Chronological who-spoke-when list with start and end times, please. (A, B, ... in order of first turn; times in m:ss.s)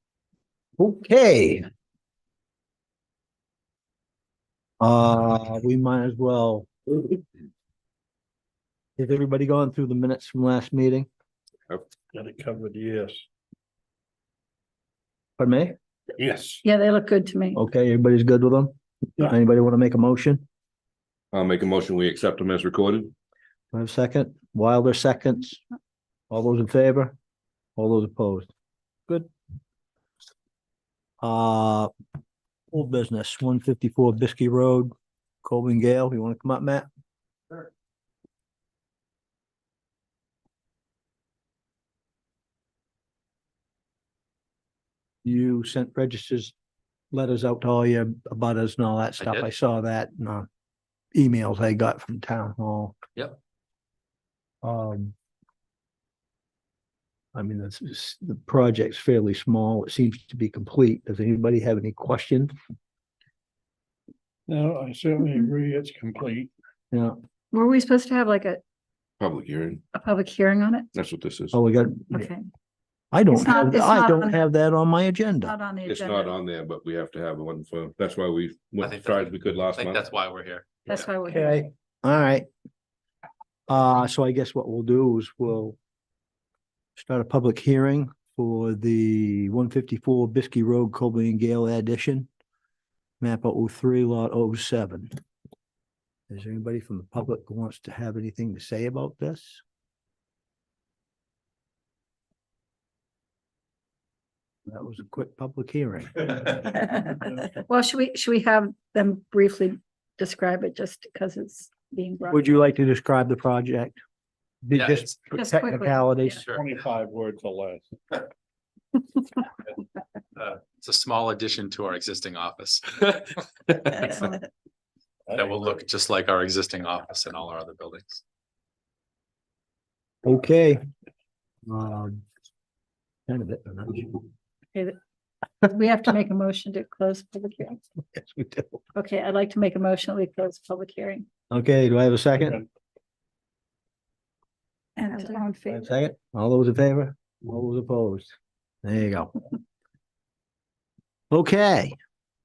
0:00.8-0:01.7 A
0:04.8-0:07.0 A
0:09.0-0:11.1 A
0:12.1-0:13.2 B
0:15.4-0:15.7 A
0:16.2-0:16.6 B
0:16.6-0:17.6 C
0:17.5-0:20.4 A
0:21.3-0:23.1 D
0:23.7-0:25.6 A
0:26.3-0:27.1 A
0:27.8-0:28.5 A
0:31.2-0:31.9 A
0:32.7-0:36.9 A
0:45.2-0:46.5 A
0:47.1-0:50.5 A
0:49.2-0:49.5 E
0:51.1-0:53.0 A
0:54.6-0:55.1 A
0:57.3-1:02.5 A
1:04.5-1:06.5 B
1:06.9-1:07.2 A
1:07.5-1:08.6 C
1:09.2-1:09.8 D
1:09.9-1:10.9 C
1:10.9-1:11.6 D
1:11.5-1:12.3 A
1:12.1-1:12.4 C
1:13.1-1:15.5 A
1:13.3-1:14.4 C
1:15.4-1:16.3 C
1:15.8-1:20.1 D
1:18.8-1:21.1 E
1:20.9-1:21.7 C
1:21.3-1:22.5 A
1:23.7-1:25.8 A
1:27.0-1:32.3 A
1:33.2-1:35.1 A
1:36.3-1:39.6 A
1:44.7-1:46.6 A
1:47.6-1:52.6 C
1:52.3-1:54.0 A
1:54.6-1:56.4 A
1:54.8-1:55.1 E
1:55.3-1:56.4 C
1:56.3-1:56.6 E
1:56.5-1:58.2 B
2:00.4-2:04.2 E
2:03.9-2:04.4 C
2:05.3-2:05.6 B
2:05.3-2:08.2 E
2:10.2-2:10.8 A
2:11.7-2:12.2 A
2:13.3-2:14.2 A
2:15.6-2:17.8 C
2:18.2-2:18.8 A
2:18.9-2:21.2 C
2:21.5-2:22.6 A
2:25.0-2:25.9 C
2:25.7-2:29.3 A
2:31.3-2:32.0 A